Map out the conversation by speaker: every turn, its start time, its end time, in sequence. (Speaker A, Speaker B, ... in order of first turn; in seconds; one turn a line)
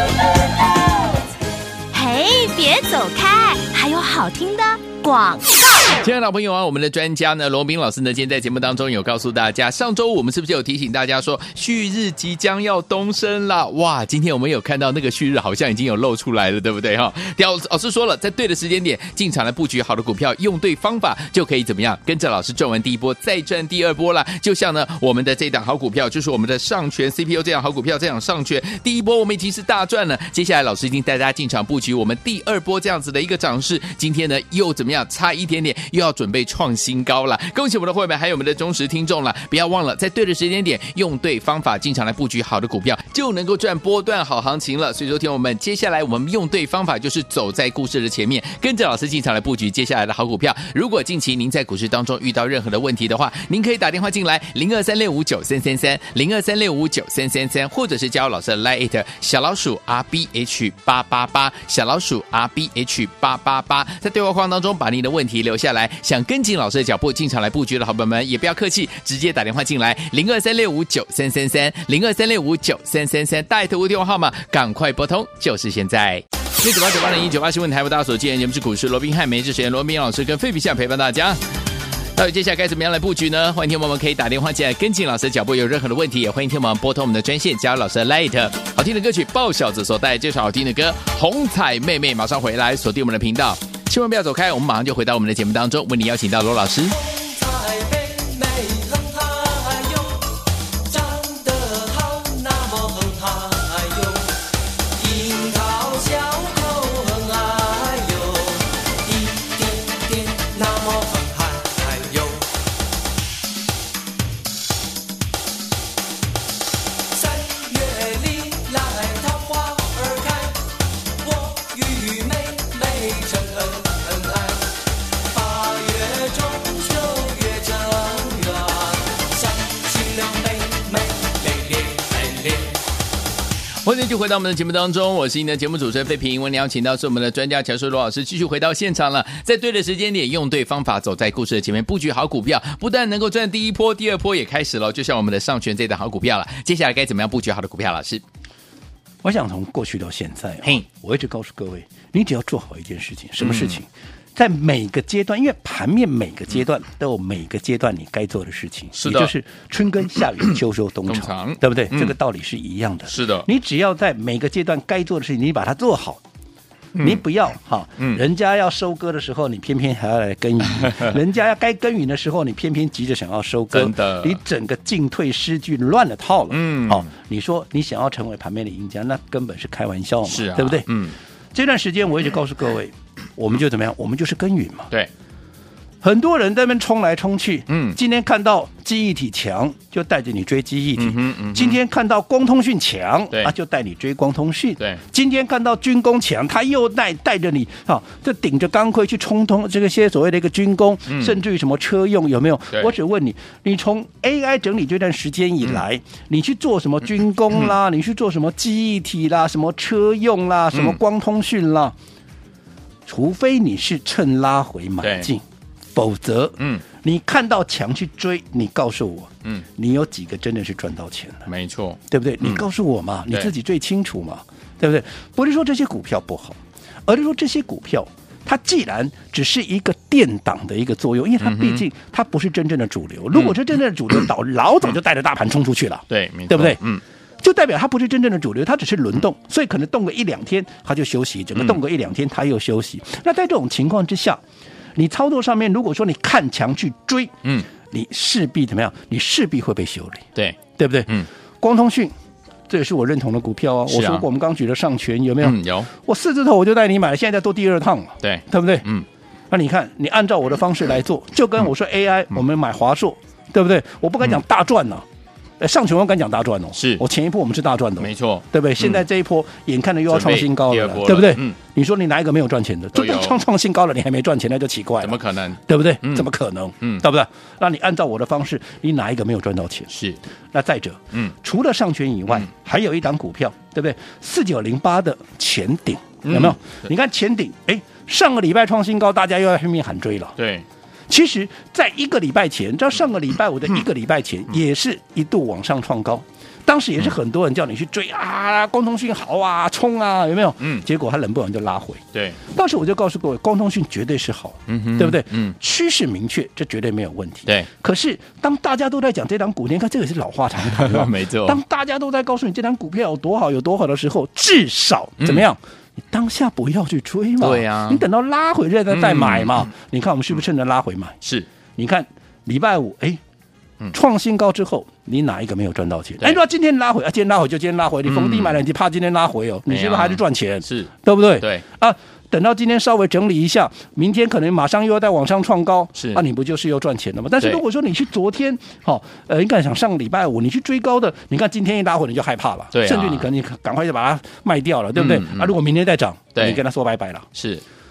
Speaker A: 1.9-5.9
Speaker B: 5.9-81.4
Speaker B: 82.2-97.1
Speaker C: 97.2-100.2
Speaker C: 101.0-104.2
Speaker C: 105.0-108.7
Speaker C: 109.2-112.4
Speaker C: 117.3-120.5
Speaker C: 121.4-124.6
Speaker C: 125.5-129.0
Speaker C: 129.7-132.4
Speaker B: 133.8-148.2
Speaker D: 149.2-166.2
Speaker B: 153.4-153.8
Speaker B: 158.9-159.3
Speaker B: 161.1-162.2
Speaker B: 163.1-163.5
Speaker B: 166.9-167.2
Speaker D: 167.0-180.9
Speaker B: 173.7-174.4
Speaker B: 176.5-177.1
Speaker B: 180.2-181.2
Speaker D: 181.5-184.9
Speaker D: 186.0-211.9
Speaker B: 187.7-188.0
Speaker B: 191.0-191.8
Speaker B: 201.1-201.4
Speaker B: 210.7-211.0
Speaker D: 213.1-215.4
Speaker B: 215.0-215.3
Speaker D: 215.9-221.5
Speaker B: 216.6-216.8
Speaker B: 221.5-222.6
Speaker D: 222.1-236.8
Speaker B: 231.4-231.8
Speaker B: 236.1-237.0
Speaker D: 237.4-244.4
Speaker D: 245.0-250.3
Speaker B: 250.3-251.3
Speaker D: 250.8-252.1
Speaker D: 252.7-258.9
Speaker B: 253.9-254.3
Speaker B: 255.4-255.9
Speaker B: 258.2-259.1
Speaker D: 259.5-265.1
Speaker D: 265.6-279.9
Speaker B: 266.8-267.0
Speaker B: 268.0-269.1
Speaker B: 270.1-271.6
Speaker B: 272.9-273.4
Speaker B: 275.0-276.3
Speaker B: 279.9-280.2
Speaker D: 280.5-290.4
Speaker B: 286.2-286.9
Speaker B: 290.4-290.7
Speaker D: 291.1-321.2
Speaker B: 304.7-305.6
Speaker B: 310.6-311.6
Speaker B: 315.2-315.4
Speaker B: 317.4-318.1
Speaker B: 318.9-319.7
Speaker B: 321.2-321.5
Speaker D: 321.8-323.2
Speaker D: 323.9-347.3
Speaker B: 328.1-328.6
Speaker B: 329.7-331.6
Speaker B: 335.9-336.2
Speaker B: 342.7-343.3
Speaker B: 344.9-345.6
Speaker B: 347.4-347.6